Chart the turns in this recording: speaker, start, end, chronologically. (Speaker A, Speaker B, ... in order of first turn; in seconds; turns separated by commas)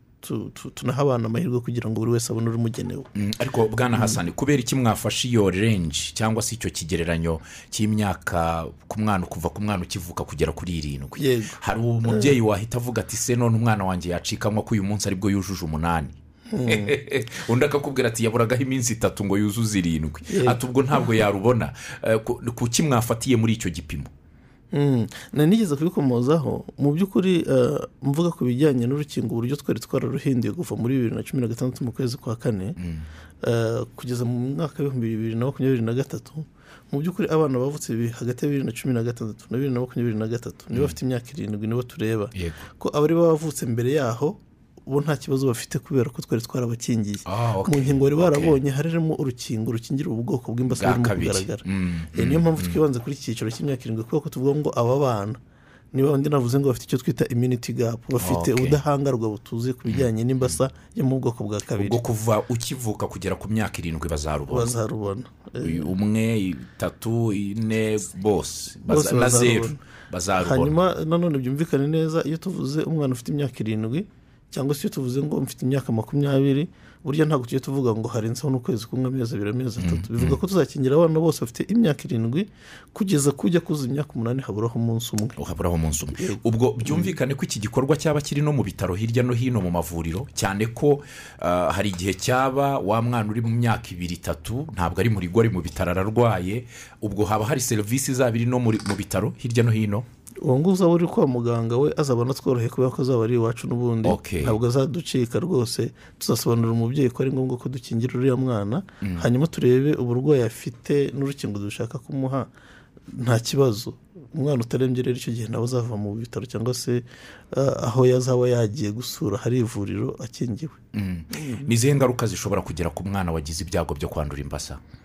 Speaker A: 0.2-3.1, Speaker B: 3.1-24.1, Speaker A: 3.9-4.2, Speaker A: 11.2-12.3, Speaker A: 16.5-17.0, Speaker A: 20.3-20.6, Speaker A: 24.7-32.8, Speaker B: 32.8-33.1, Speaker A: 33.4-55.4, Speaker B: 42.3-42.6, Speaker B: 47.2-48.5, Speaker B: 50.8-52.8, Speaker A: 55.9-62.0, Speaker B: 58.2-58.8, Speaker B: 59.9-60.6, Speaker B: 61.8-64.7, Speaker A: 64.5-65.9, Speaker B: 65.6-70.8, Speaker A: 68.8-69.8, Speaker A: 70.4-85.4, Speaker B: 79.8-80.4, Speaker B: 85.4-100.0, Speaker A: 86.1-87.2, Speaker A: 100.4-112.5, Speaker B: 104.0-104.6, Speaker A: 113.0-120.8, Speaker B: 120.9-124.8, Speaker A: 121.3-121.6